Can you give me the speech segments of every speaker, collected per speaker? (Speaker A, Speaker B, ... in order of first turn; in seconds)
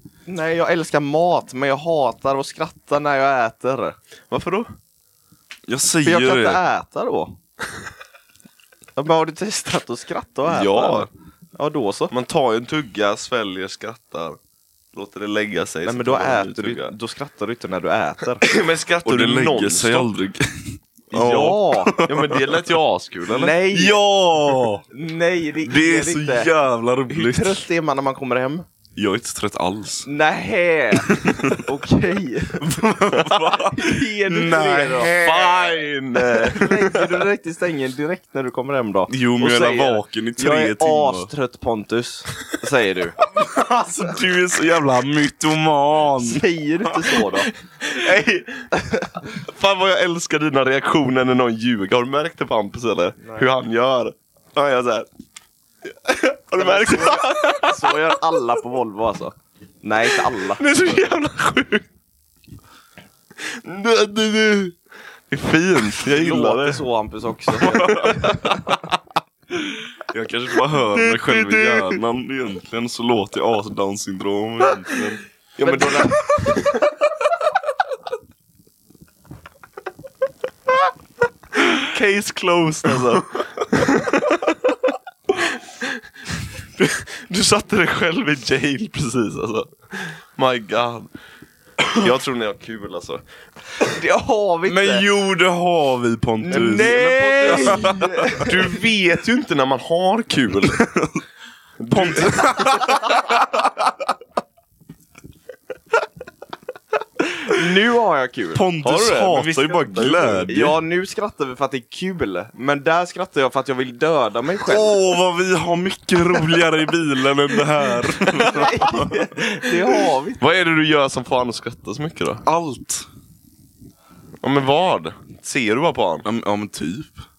Speaker A: 0.3-4.0, 6.0-7.3, 9.0-12.1, 15.8-18.4, 21.1-22.0, 23.3-24.0, 24.9-26.5, 27.1-28.7, 30.1-32.7, 33.6-43.1, 46.3-47.5, 53.2-53.5, 56.6-60.7, 66.0-68.7, 75.6-76.2, 93.8-95.1, 96.4-98.6, 107.4-109.0, 110.5-115.0, 118.4-120.4
Speaker B: 4.3-4.7, 10.5-11.1, 12.1-14.4, 14.9-16.9, 18.4-20.1, 22.0-23.6, 33.1-33.4, 34.9-37.3, 47.7-55.1, 55.9-58.2, 60.3-61.9, 63.4-64.8, 65.3-66.8, 68.1-68.5, 70.9-72.0, 75.6-76.8, 81.8-86.0, 86.8-91.1, 91.8-93.2, 96.5-100.8, 101.8-103.4, 108.8-110.5, 118.4-118.7, 120.4-122.4, 124.4-126.3
Speaker C: 5.7-6.6, 19.1-22.5, 23.7-24.8, 25.6-27.6, 29.0-30.1, 31.0-31.6, 32.6-35.1, 39.1-41.3, 43.2-46.4, 67.7-68.1, 70.1-75.2, 94.7-98.5, 100.7-101.2, 101.9-103.2, 108.5-110.8, 114.7-119.2, 122.5-123.1, 126.3-127.2